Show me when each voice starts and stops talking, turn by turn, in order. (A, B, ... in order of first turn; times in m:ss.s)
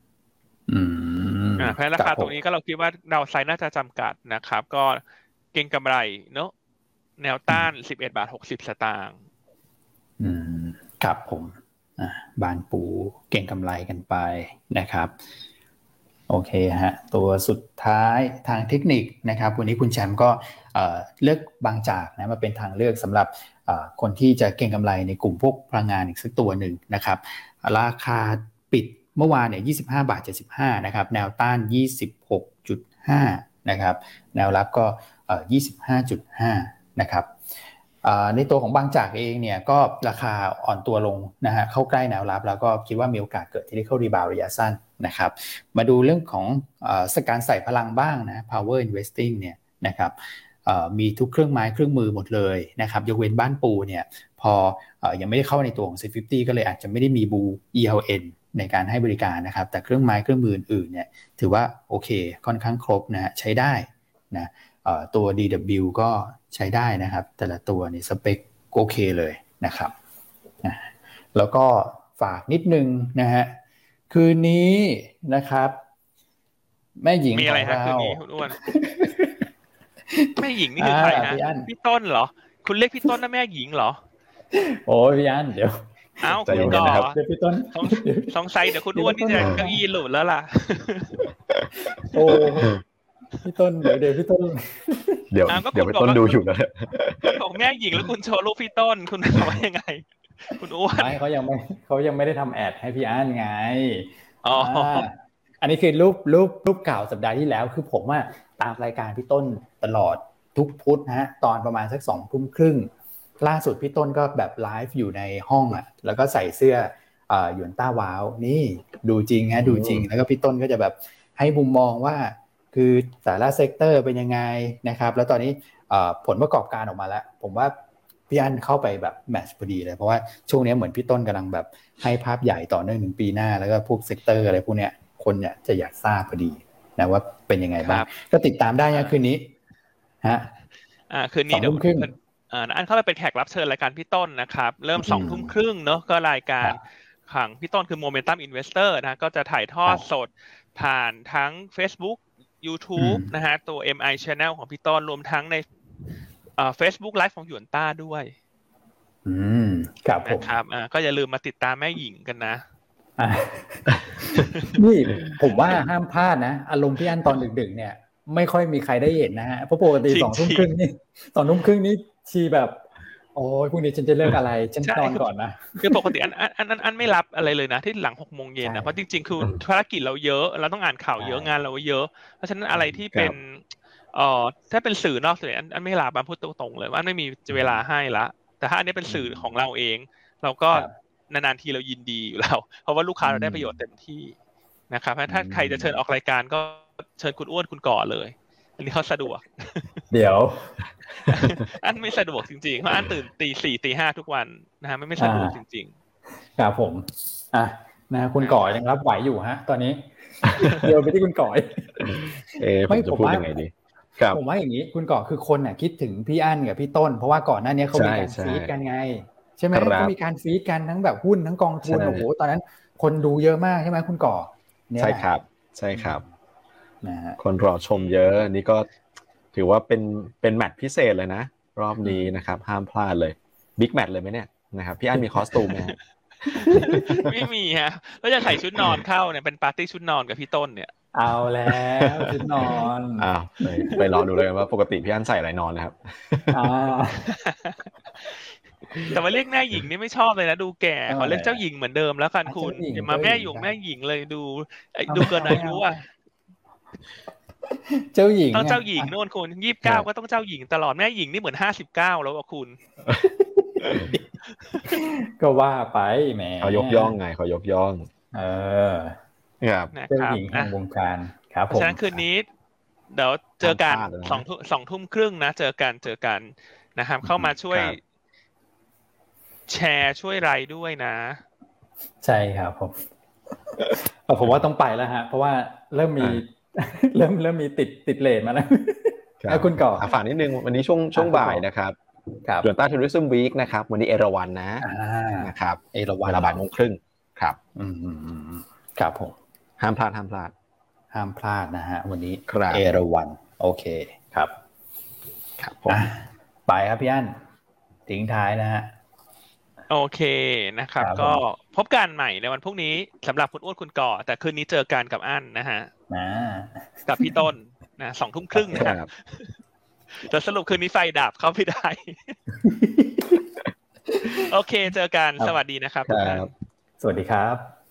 0:00.7-0:02.4 A
0:01.6-0:05.0 B
0:05.5-0:06.5 B
0:07.2-0:09.2 B
0:10.2-0:15.1 A
0:16.3-0:37.3 A
0:38.0-1:09.9 A
1:10.6-1:13.6 A
1:14.1-1:15.8 A
1:17.0-1:19.4 A
1:17.4-1:18.6 B
1:20.1-1:21.7 A
1:20.4-1:24.0 B
1:24.6-1:29.8 A
1:26.2-1:27.2 B
1:26.4-1:27.1 C
1:27.7-1:31.3 B
1:31.9-1:32.8 A
1:33.4-1:35.3 A
1:35.3-1:37.4 C
1:35.5-1:36.4 B
1:37.4-1:41.2 B
1:40.9-1:52.9 A
1:44.4-1:45.1 B
1:53.4-2:07.7 A
1:59.6-2:00.1 C
2:08.3-2:19.5 A
2:17.8-2:18.1 B
2:20.2-2:20.5 A
2:21.1-2:35.6 B
2:21.5-2:22.1 A
2:25.0-2:25.6 A
2:33.0-2:33.3 A
2:36.6-2:38.3 B
2:39.2-2:40.6 A
2:40.2-2:42.6 B
2:43.2-2:52.8 A
2:44.4-2:45.3 B
2:50.1-2:50.7 B
2:53.4-2:56.3 A
2:54.8-2:55.2 B
2:55.8-3:03.6 B
2:58.6-2:58.9 A
3:01.2-3:01.5 A
3:03.1-3:03.4 C
3:04.1-3:14.4 B
3:09.1-3:09.4 A
3:13.2-3:13.8 A
3:14.9-3:20.0 B
3:15.3-3:16.0 A
3:20.1-3:21.6 A
3:21.3-3:25.9 B
3:25.2-3:25.6 A
3:26.6-3:33.5 A
3:28.4-3:28.7 B
3:32.0-3:34.4 C
3:34.3-3:45.3 A
3:37.9-3:38.7 C
3:39.7-3:40.1 C
3:41.8-3:42.2 C
3:45.0-3:46.2 C
3:45.9-3:46.3 A
3:47.0-3:47.4 A
3:47.4-3:48.9 C
3:49.5-3:56.0 C
3:55.7-3:55.9 B
3:56.5-3:57.1 C
3:56.6-3:57.3 A
3:56.7-4:00.9 B
4:01.1-4:04.3 A
4:02.6-4:06.7 C
4:06.5-4:07.3 A
4:07.3-4:08.4 B
4:09.0-4:16.0 B
4:11.1-4:11.6 A
4:12.4-4:13.7 A
4:15.1-4:15.8 A
4:17.9-4:19.1 A
4:18.5-4:22.8 B
4:23.6-4:24.2 A
4:24.8-4:27.1 A
4:26.6-4:28.1 C
4:28.3-4:29.2 A
4:29.6-4:29.9 C
4:29.9-4:30.7 B
4:30.1-4:32.2 A
4:31.7-4:32.5 B
4:33.1-4:38.0 B
4:33.6-4:34.4 C
4:37.4-4:38.0 C
4:39.7-4:41.4 B
4:42.2-4:43.0 A
4:43.7-4:50.1 A
4:49.4-4:52.0 C
4:51.2-4:51.6 A
4:52.4-4:52.7 A
4:52.6-4:54.8 C
4:54.8-4:56.6 A
4:55.4-4:57.6 C
4:57.8-4:59.4 A
4:59.8-5:00.5 C
5:01.1-5:04.5 A
5:02.5-5:02.8 C
5:05.6-5:06.0 C
5:05.9-5:07.4 A
5:08.1-5:08.9 A
5:09.9-5:15.9 B
5:11.0-5:11.4 A
5:16.1-5:17.4 A
5:17.0-5:19.6 B
5:18.5-5:19.1 C
5:20.2-5:22.4 B
5:22.6-5:23.4 A
5:24.1-5:24.4 A
5:24.4-5:26.5 B
5:26.1-5:26.5 C
5:27.0-5:27.7 A